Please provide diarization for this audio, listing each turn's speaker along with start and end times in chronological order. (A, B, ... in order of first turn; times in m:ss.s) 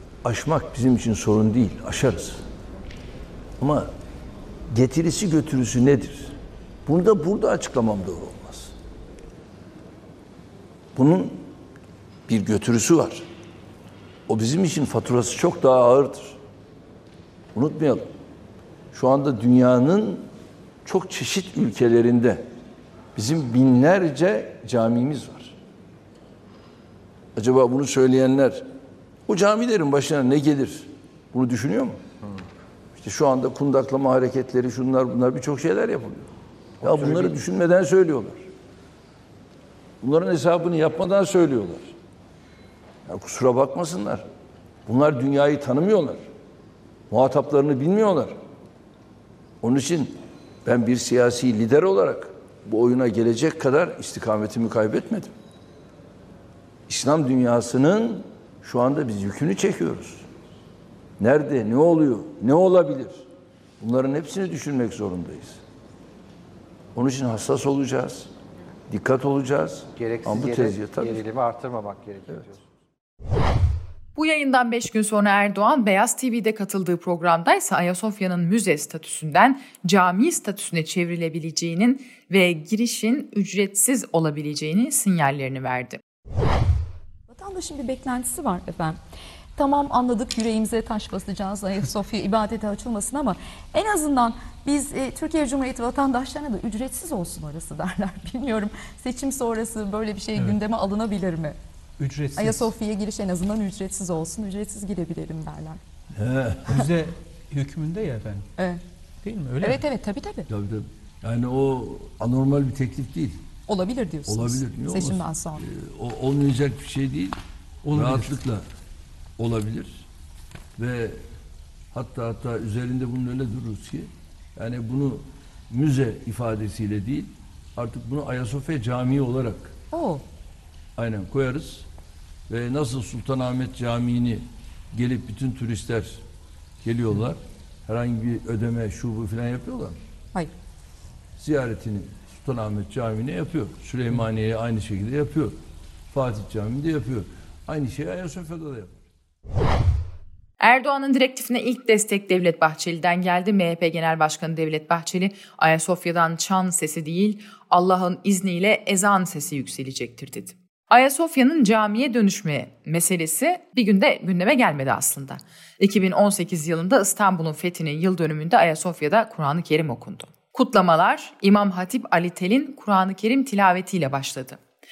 0:00.2-0:02.4 A
0:03.6-0:03.9 A
0:04.7-0:08.7 A
0:10.9-0:11.4 A
0:12.3-0:13.2 A
0:14.3-0:16.4 A
0:17.5-0:18.1 A
0:18.9-0:20.3 A
0:20.8-0:22.4 A
0:23.1-0:25.5 A
0:27.4-0:28.6 A
0:29.3-0:32.0 A
0:33.0-0:36.3 A
0:36.8-0:38.4 A
0:36.8-0:37.3 B
0:40.0-0:41.9 A
0:43.0-0:44.2 A
0:44.8-0:46.2 A
0:47.1-0:48.4 A
0:49.6-0:55.3 A
0:56.9-1:00.2 A
1:01.2-1:03.2 A
1:03.8-1:05.6 A
1:06.9-1:08.3 A
1:08.9-1:11.2 A
1:09.9-1:12.6 B
1:14.2-1:26.0 C
1:27.3-1:29.0 D
1:29.6-1:41.6 D
1:42.0-1:42.7 E
1:42.3-1:45.8 D
1:46.2-1:46.7 A
1:46.7-1:48.5 E
1:48.6-1:48.8 D
1:49.2-1:49.8 E
1:49.6-1:50.5 D
1:50.5-1:53.4 A
1:53.7-1:55.6 D
1:54.2-1:57.4 A
1:57.8-1:58.4 E
1:57.9-1:58.6 A
1:59.4-2:00.0 A
2:00.8-2:01.2 A
2:01.9-2:09.7 A
2:09.9-2:10.2 D
2:11.0-2:11.8 A
2:12.5-2:16.2 A
2:16.8-2:20.0 A
2:21.4-2:25.6 A
2:26.1-2:29.0 A
2:30.6-2:54.6 C